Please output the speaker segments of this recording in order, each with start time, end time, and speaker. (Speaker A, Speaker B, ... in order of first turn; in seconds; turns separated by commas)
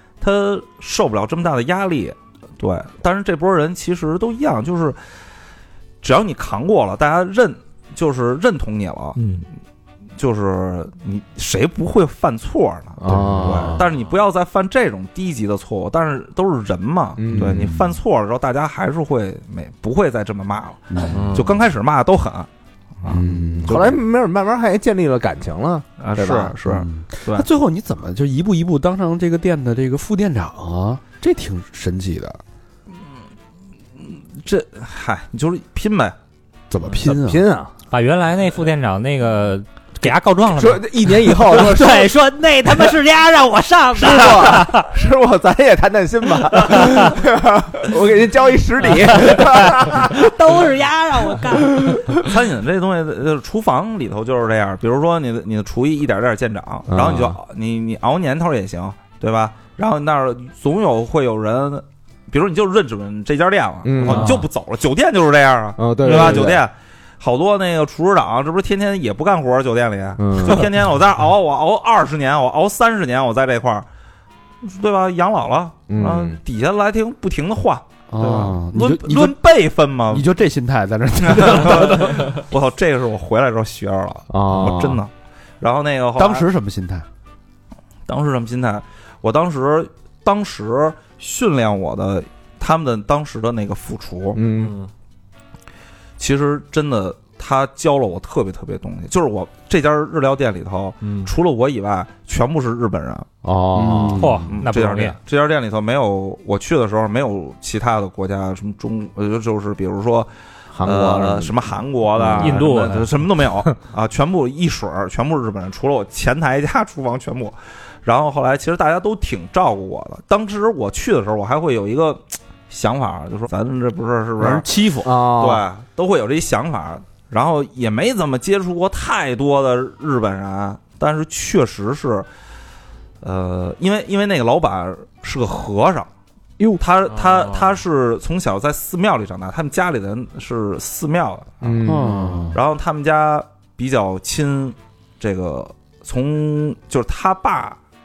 Speaker A: 0.2-5.0, Speaker A: 6.0-9.2, Speaker B: 9.2-9.4, Speaker A: 10.2-22.5, Speaker C: 13.0-13.8, Speaker D: 13.1-13.8, Speaker C: 17.2-17.7, Speaker D: 17.3-17.7, Speaker D: 20.9-21.4, Speaker E: 21.1-21.5, Speaker A: 23.0-24.0, Speaker D: 23.1-23.8, Speaker C: 23.1-26.5, Speaker A: 26.0-27.5, Speaker D: 26.6-32.4, Speaker A: 34.0-36.1, Speaker D: 36.7-37.4, Speaker C: 37.0-37.7, Speaker B: 37.9-44.9, Speaker C: 40.5-42.1, Speaker C: 43.9-50.3, Speaker B: 46.6-47.1, Speaker B: 49.2-52.2, Speaker C: 51.5-52.2, Speaker A: 52.2-73.9, Speaker C: 56.9-57.4, Speaker C: 63.8-64.4, Speaker E: 64.1-64.4, Speaker C: 65.8-66.6, Speaker C: 70.2-70.6, Speaker A: 74.6-80.2, Speaker C: 75.9-76.4, Speaker D: 78.1-79.4, Speaker D: 80.1-82.3, Speaker A: 81.2-86.5, Speaker C: 84.3-85.0, Speaker D: 86.2-87.0, Speaker A: 88.1-94.4, Speaker C: 94.3-94.7, Speaker E: 94.6-94.9, Speaker A: 96.2-103.3, Speaker E: 101.0-101.3, Speaker C: 103.4-104.3, Speaker D: 103.7-104.5, Speaker B: 104.2-105.2, Speaker A: 104.5-110.3, Speaker C: 110.7-111.6, Speaker A: 110.8-124.7, Speaker C: 112.2-112.6, Speaker B: 112.4-113.1, Speaker D: 124.4-125.1, Speaker C: 125.0-125.6, Speaker A: 125.4-132.3, Speaker A: 133.2-136.1, Speaker A: 136.8-141.8, Speaker E: 137.1-137.8, Speaker C: 141.6-142.4, Speaker D: 141.8-142.6, Speaker E: 142.1-142.5, Speaker A: 142.5-147.8